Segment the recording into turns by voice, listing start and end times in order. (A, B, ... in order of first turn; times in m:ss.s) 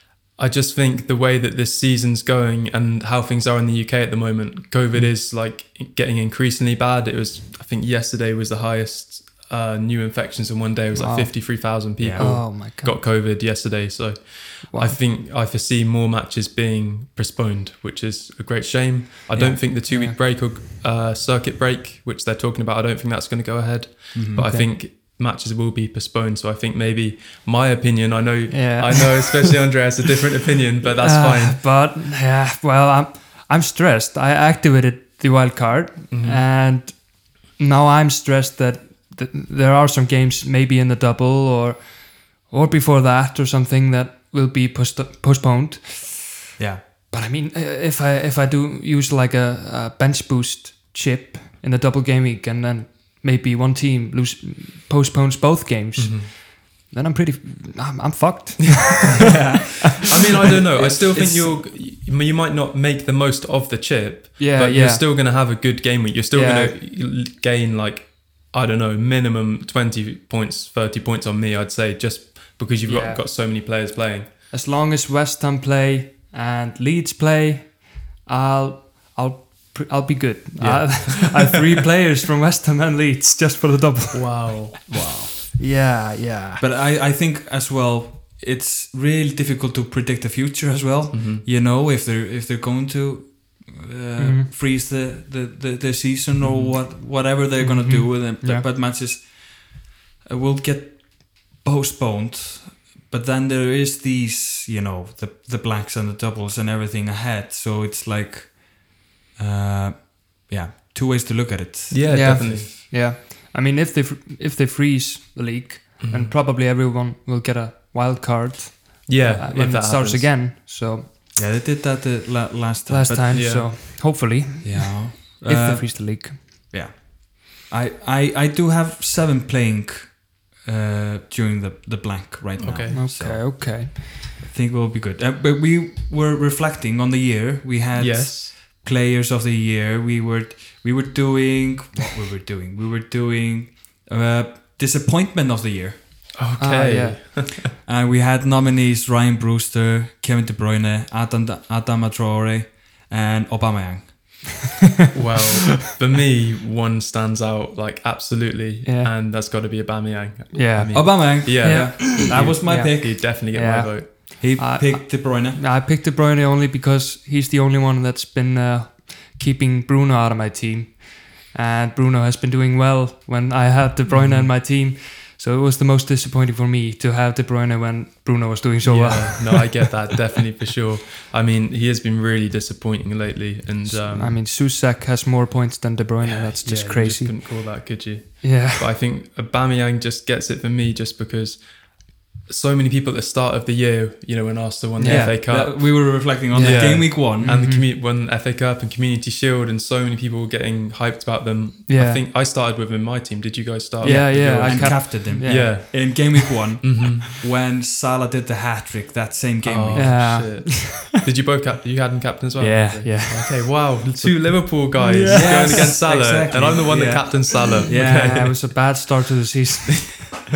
0:00.4-0:31.6 A
0:11.0-0:13.0 B
0:12.0-0:12.4 C
0:14.7-0:15.0 B
0:19.4-0:20.2 B
0:24.2-0:24.4 C
0:24.4-0:24.7 B
0:28.5-0:29.6 B
0:31.0-0:46.3 B
0:36.1-0:36.4 A
0:46.6-0:46.8 C
0:47.1-0:59.2 B
0:56.0-0:56.3 A
0:59.2-1:00.0 C
1:00.1-1:14.3 A
1:00.8-1:01.5 B
1:00.8-1:01.5 C
1:04.4-1:05.1 B
1:06.3-1:06.8 B
1:12.9-1:13.2 B
1:14.5-1:24.8 B
1:20.6-1:21.5 A
1:24.1-1:24.8 A
1:24.9-1:25.5 C
1:25.5-1:26.6 B
1:26.6-1:52.7 C
1:31.1-1:31.4 A
1:34.2-1:34.5 B
1:36.4-1:36.8 A
1:37.6-1:38.6 B
1:51.9-1:52.7 A
1:52.1-2:01.1 B
1:56.0-1:56.4 A
1:59.1-2:00.3 A
2:01.4-2:03.5 C
2:02.9-2:06.4 B
2:03.3-2:03.7 A
2:04.6-2:26.3 C
2:12.6-2:13.0 A
2:12.9-2:13.9 B
2:18.0-2:18.5 A
2:26.4-2:27.7 A
2:26.6-2:27.5 B
2:27.8-2:34.5 C
2:35.1-2:44.1 A
2:38.8-2:39.1 B
2:40.5-2:59.9 B
2:40.9-2:43.2 C
2:44.4-2:45.6 C
2:54.1-2:54.5 A
2:58.8-3:04.4 A
3:03.8-3:08.9 B
3:06.2-3:27.3 A
3:15.0-3:15.7 B
3:15.0-3:17.6 C
3:16.5-3:17.9 B
3:21.9-3:22.2 B
3:24.0-3:26.1 B
3:24.1-3:30.4 C
3:29.6-3:38.7 A
3:29.9-3:31.2 B
3:32.6-3:36.0 B
3:35.3-3:38.5 C
3:37.8-3:40.3 B